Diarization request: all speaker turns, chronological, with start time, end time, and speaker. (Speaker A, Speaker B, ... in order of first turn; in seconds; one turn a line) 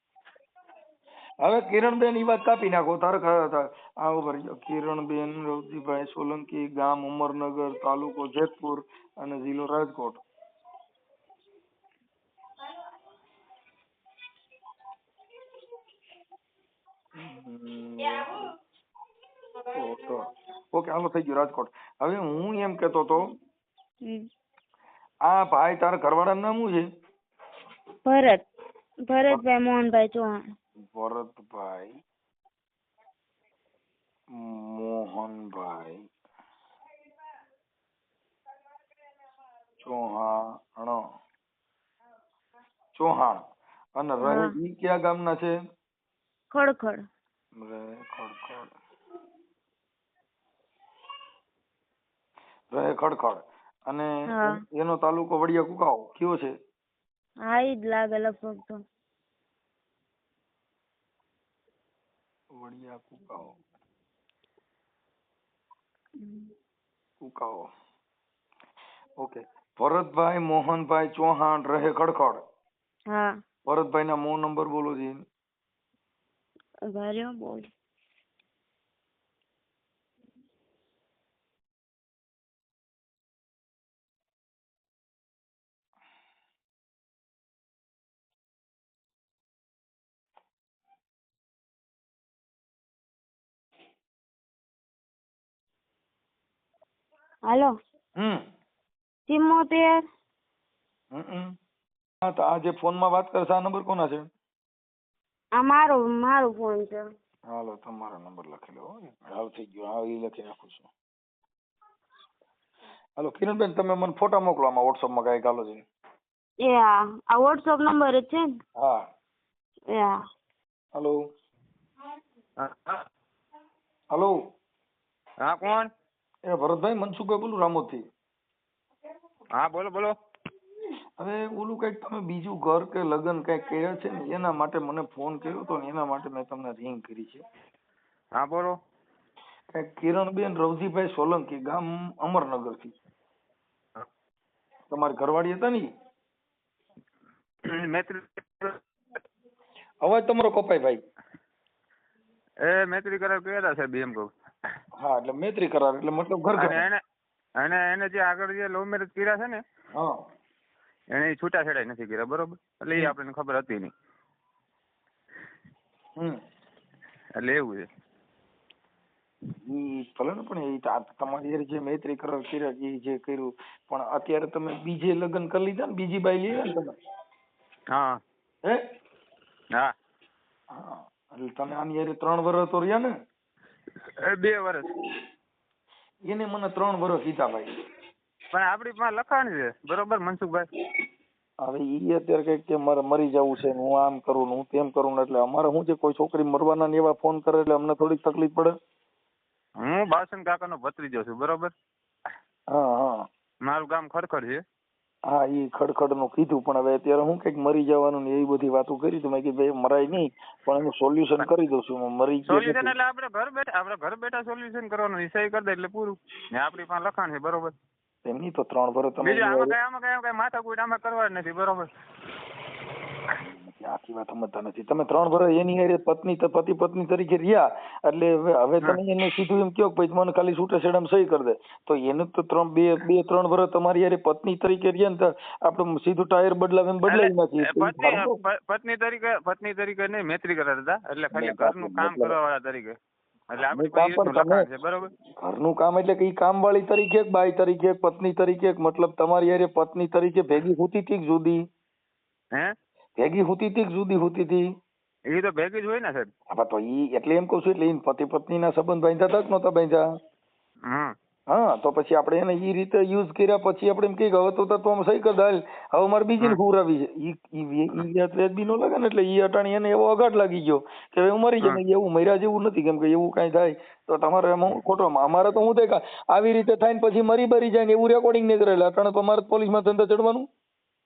Speaker A: 1.4-10.2
Speaker A: 17.1-18.5
Speaker A: 19.7-23.4
Speaker A: 25.2-26.9
Speaker B: 28.1-28.4
Speaker B: 29.1-30.4
Speaker A: 30.8-32.0
Speaker A: 34.3-36.1
Speaker A: 39.8-41.0
Speaker A: 42.9-43.4
Speaker A: 44.0-45.5
Speaker B: 44.2-44.5
Speaker B: 46.5-47.0
Speaker A: 47.5-48.8
Speaker A: 52.7-56.5
Speaker B: 54.3-54.6
Speaker B: 57.5-58.8
Speaker A: 62.5-63.6
Speaker B: 66.2-66.5
Speaker A: 67.2-67.7
Speaker A: 69.2-72.4
Speaker B: 73.1-73.4
Speaker A: 73.7-75.2
Speaker B: 76.9-77.7
Speaker B: 97.5-97.7
Speaker A: 98.2-98.4
Speaker B: 99.3-100.0
Speaker A: 101.1-101.5
Speaker A: 102.2-104.3
Speaker B: 105.6-107.0
Speaker A: 107.5-110.9
Speaker A: 113.2-115.8
Speaker B: 116.6-118.5
Speaker A: 118.8-119.1
Speaker B: 119.9-120.2
Speaker A: 120.9-121.2
Speaker C: 122.6-123.0
Speaker C: 125.4-125.9
Speaker A: 126.5-128.0
Speaker C: 129.5-130.2
Speaker A: 131.2-137.4
Speaker C: 138.3-138.8
Speaker A: 139.7-142.9
Speaker A: 144.9-145.9
Speaker C: 147.6-148.8
Speaker A: 150.0-151.0
Speaker C: 152.6-154.3
Speaker A: 155.0-156.8
Speaker C: 156.6-157.0
Speaker C: 157.6-159.6
Speaker A: 159.9-160.2
Speaker C: 161.1-163.9
Speaker C: 167.4-167.9
Speaker A: 169.6-176.9
Speaker C: 177.9-178.2
Speaker A: 180.7-183.1
Speaker C: 184.0-184.9
Speaker A: 186.2-187.7
Speaker C: 188.5-190.7
Speaker A: 191.6-198.7
Speaker C: 199.8-201.7
Speaker A: 202.7-203.2
Speaker C: 203.6-204.6
Speaker A: 205.3-212.9
Speaker C: 212.5-217.7
Speaker A: 218.2-219.8
Speaker C: 219.2-221.9
Speaker A: 223.3-238.4
Speaker C: 237.1-243.0
Speaker A: 241.3-242.3
Speaker C: 243.5-245.1
Speaker A: 243.7-244.7
Speaker A: 245.3-251.6
Speaker A: 253.2-254.7
Speaker C: 255.3-256.3
Speaker A: 256.5-260.1
Speaker C: 260.9-261.1
Speaker A: 261.5-280.5